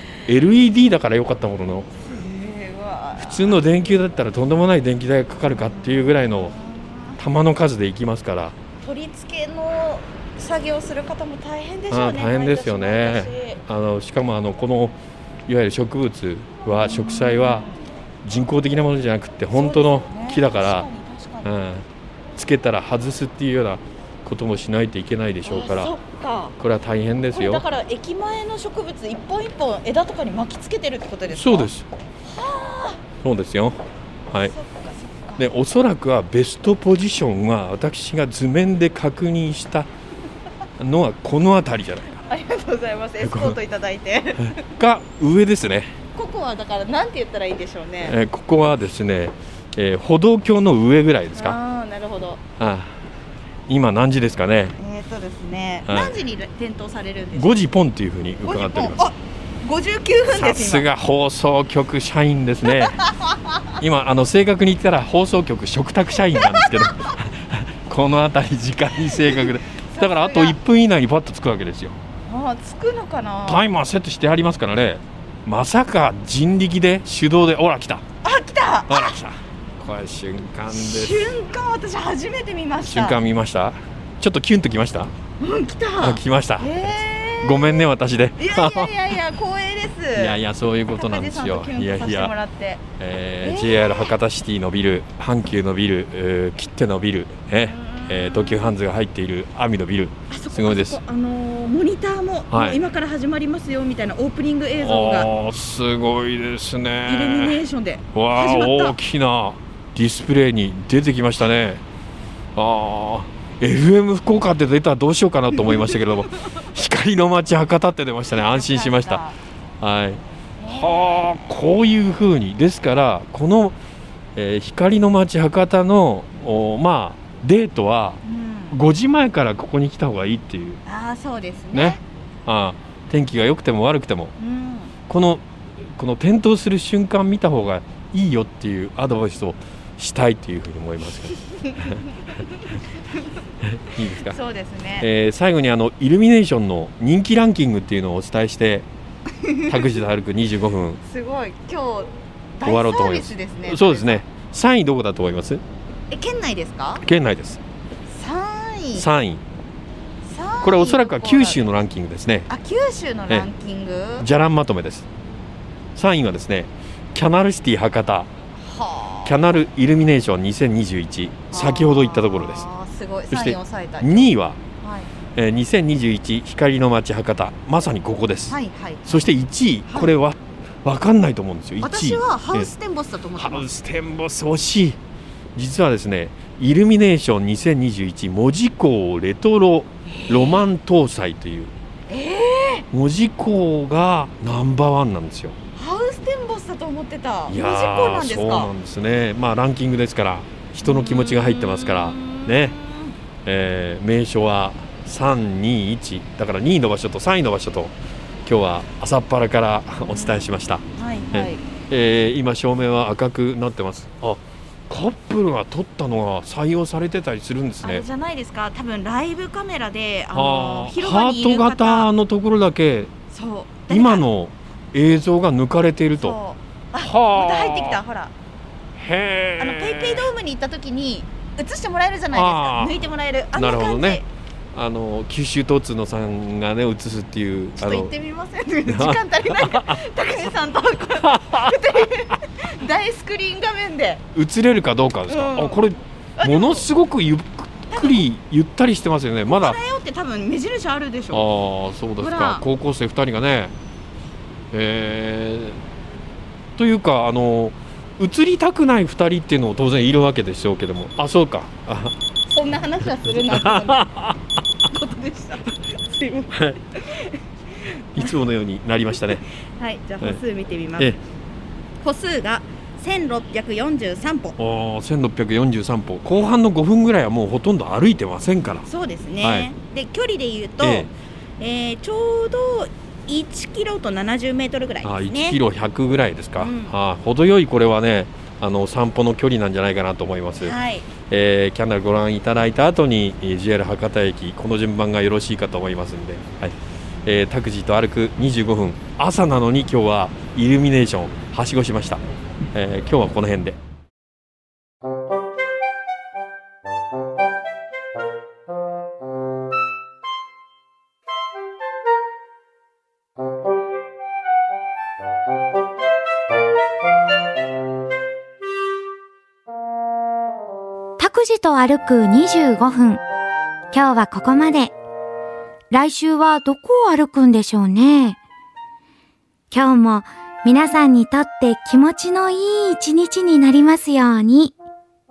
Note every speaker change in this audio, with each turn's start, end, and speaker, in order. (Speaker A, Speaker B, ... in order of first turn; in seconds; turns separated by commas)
Speaker A: 0.3-1.9, Speaker B: 2.0-3.6, Speaker A: 3.2-6.5, Speaker B: 5.7-7.2, Speaker A: 7.2-8.6, Speaker B: 8.8-13.6, Speaker A: 11.9-17.7, Speaker B: 16.7-17.8, Speaker A: 18.2-20.9, Speaker B: 19.5-21.5, Speaker A: 21.4-25.9, Speaker B: 25.4-26.6, Speaker A: 26.6-27.6, Speaker B: 27.3-31.7, Speaker A: 31.3-31.9, Speaker B: 32.2-33.0, Speaker A: 33.2-34.5, Speaker B: 34.4-35.5, Speaker A: 35.4-39.9, Speaker A: 40.8-42.2, Speaker B: 42.2-44.7, Speaker A: 43.2-43.6, Speaker A: 44.4-45.9, Speaker B: 46.1-48.2, Speaker A: 48.0-51.6, Speaker B: 51.3-52.4, Speaker A: 52.6-53.0, Speaker A: 53.7-54.7, Speaker B: 54.8-57.6, Speaker A: 55.9-56.2, Speaker A: 57.4-59.0, Speaker B: 58.4-60.9, Speaker A: 60.3-63.0, Speaker B: 62.7-63.6, Speaker A: 63.8-72.0, Speaker B: 66.4-67.2, Speaker B: 69.3-70.6, Speaker B: 72.3-73.7, Speaker A: 73.5-78.0, Speaker B: 78.2-79.2, Speaker A: 78.9-81.3, Speaker B: 80.7-83.2, Speaker A: 82.8-85.1, Speaker B: 85.4-87.8, Speaker A: 86.0-89.0, Speaker B: 88.4-90.4, Speaker A: 90.2-92.3, Speaker B: 90.9-92.8, Speaker A: 93.0-101.0, Speaker B: 93.4-94.1, Speaker B: 97.6-98.8, Speaker B: 100.3-105.3, Speaker A: 102.5-102.8, Speaker A: 104.8-107.6, Speaker B: 107.1-109.0, Speaker A: 108.1-111.8, Speaker A: 112.6-119.2, Speaker B: 118.3-119.4, Speaker A: 119.8-123.8, Speaker B: 120.6-121.3, Speaker A: 124.3-128.2, Speaker B: 128.2-128.8, Speaker A: 128.7-130.8, Speaker B: 130.9-132.0, Speaker A: 131.7-134.3, Speaker B: 134.4-134.9, Speaker A: 135.1-135.4, Speaker A: 136.0-142.0, Speaker B: 141.4-143.2, Speaker A: 143.6-144.4, Speaker B: 144.2-145.1, Speaker A: 145.0-148.9, Speaker B: 149.4-149.9, Speaker A: 149.7-151.0, Speaker B: 151.0-154.2, Speaker A: 152.6-155.6, Speaker B: 156.1-157.1, Speaker A: 157.0-157.6, Speaker B: 158.1-159.1, Speaker A: 158.9-159.4, Speaker B: 160.2-161.7, Speaker A: 160.6-162.5, Speaker B: 162.5-164.3, Speaker A: 164.2-165.1, Speaker A: 165.9-168.3, Speaker B: 168.6-169.4, Speaker A: 169.2-172.7, Speaker B: 171.5-175.1, Speaker A: 173.3-174.6, Speaker A: 175.4-182.7, Speaker B: 178.5-179.3, Speaker B: 179.9-180.1, Speaker B: 181.8-183.7, Speaker A: 183.4-185.0, Speaker A: 185.6-191.7, Speaker B: 190.1-190.6, Speaker B: 192.1-192.9, Speaker A: 192.9-195.6, Speaker B: 195.8-198.7, Speaker A: 197.5-202.8, Speaker B: 200.8-203.2, Speaker A: 203.4-207.9, Speaker A: 208.4-218.1, Speaker B: 210.1-210.4, Speaker B: 211.0-211.6, Speaker B: 217.8-222.1, Speaker A: 220.3-223.1, Speaker B: 223.3-224.2, Speaker A: 223.9-226.4, Speaker B: 226.1-228.3, Speaker A: 227.0-228.0, Speaker A: 229.0-230.3, Speaker B: 229.6-234.3, Speaker A: 232.3-238.1, Speaker B: 237.8-244.2, Speaker A: 238.9-240.0, Speaker A: 241.2-242.1, Speaker A: 244.3-249.8, Speaker B: 245.3-245.8, Speaker B: 246.4-246.8, Speaker B: 247.9-248.2, Speaker B: 249.5-251.5, Speaker A: 251.3-253.7, Speaker B: 252.2-252.7, Speaker A: 254.7-255.8, Speaker A: 256.8-262.2, Speaker B: 262.5-264.1, Speaker A: 263.3-264.4, Speaker B: 264.9-268.4, Speaker A: 266.5-266.8, Speaker A: 268.1-269.4, Speaker B: 269.4-271.1, Speaker B: 272.0-274.6, Speaker A: 274.6-278.9, Speaker B: 278.9-285.6, Speaker A: 279.4-279.7, Speaker A: 280.8-281.1, Speaker A: 285.0-290.8, Speaker B: 286.6-287.0, Speaker B: 290.6-291.1, Speaker A: 291.3-302.2, Speaker A: 302.7-303.8, Speaker C: 321.2-323.2, Speaker C: 323.9-324.9, Speaker C: 325.9-328.4, Speaker C: 329.7-334.8